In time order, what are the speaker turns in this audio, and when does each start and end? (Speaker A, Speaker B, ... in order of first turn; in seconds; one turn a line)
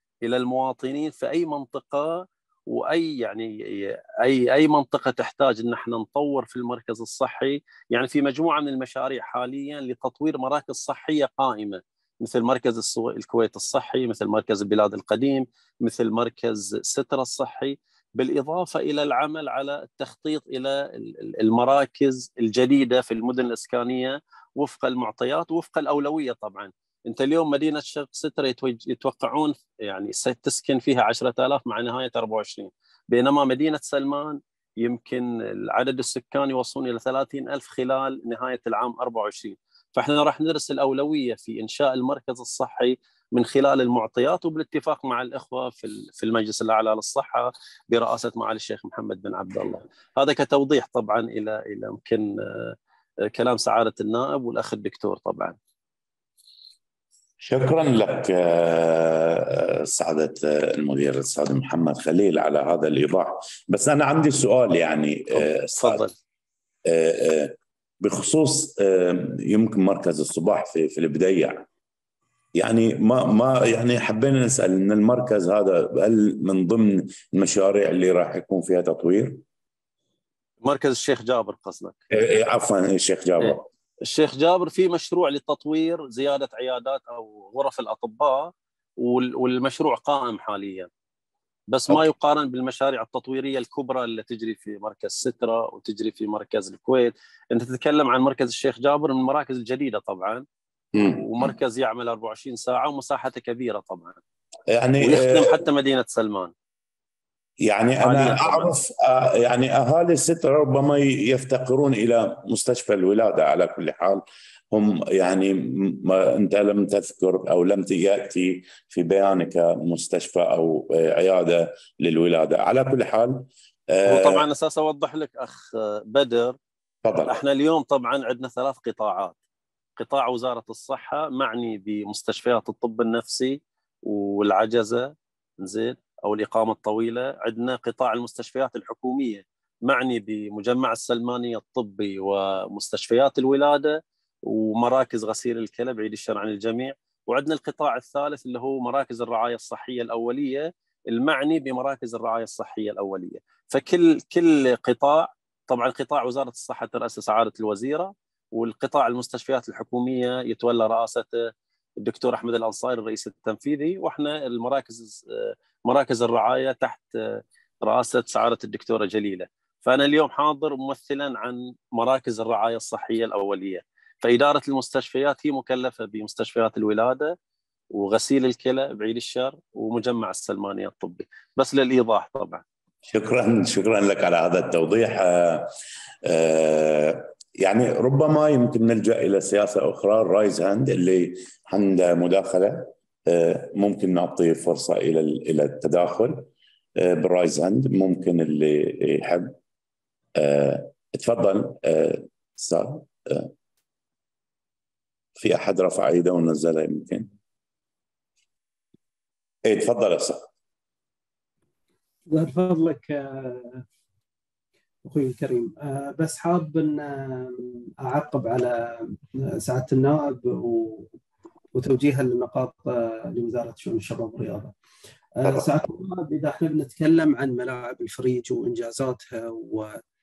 Speaker A: 0.2-52.7
Speaker A: 53.3-55.6
Speaker B: 57.4-66.0
Speaker A: 65.4-66.1
Speaker B: 66.8-71.7
Speaker B: 72.5-79.4
Speaker A: 80.6-82.0
Speaker B: 82.1-83.6
Speaker A: 83.4-90.9
Speaker A: 91.7-100.4
Speaker B: 100.9-101.2
Speaker A: 101.0-104.2
Speaker B: 104.7-105.5
Speaker A: 105.0-106.5
Speaker B: 107.6-124.4
Speaker A: 108.0-108.7
Speaker A: 124.0-126.6
Speaker B: 127.0-127.4
Speaker A: 127.3-129.4
Speaker A: 130.0-177.3
Speaker A: 177.9-182.6
Speaker B: 183.1-185.7
Speaker B: 186.3-199.5
Speaker B: 200.3-203.5
Speaker B: 205.4-207.3
Speaker B: 209.7-210.5
Speaker C: 212.3-213.8
Speaker C: 215.0-221.1
Speaker C: 221.7-224.7
Speaker C: 225.4-230.0
Speaker B: 225.4-225.7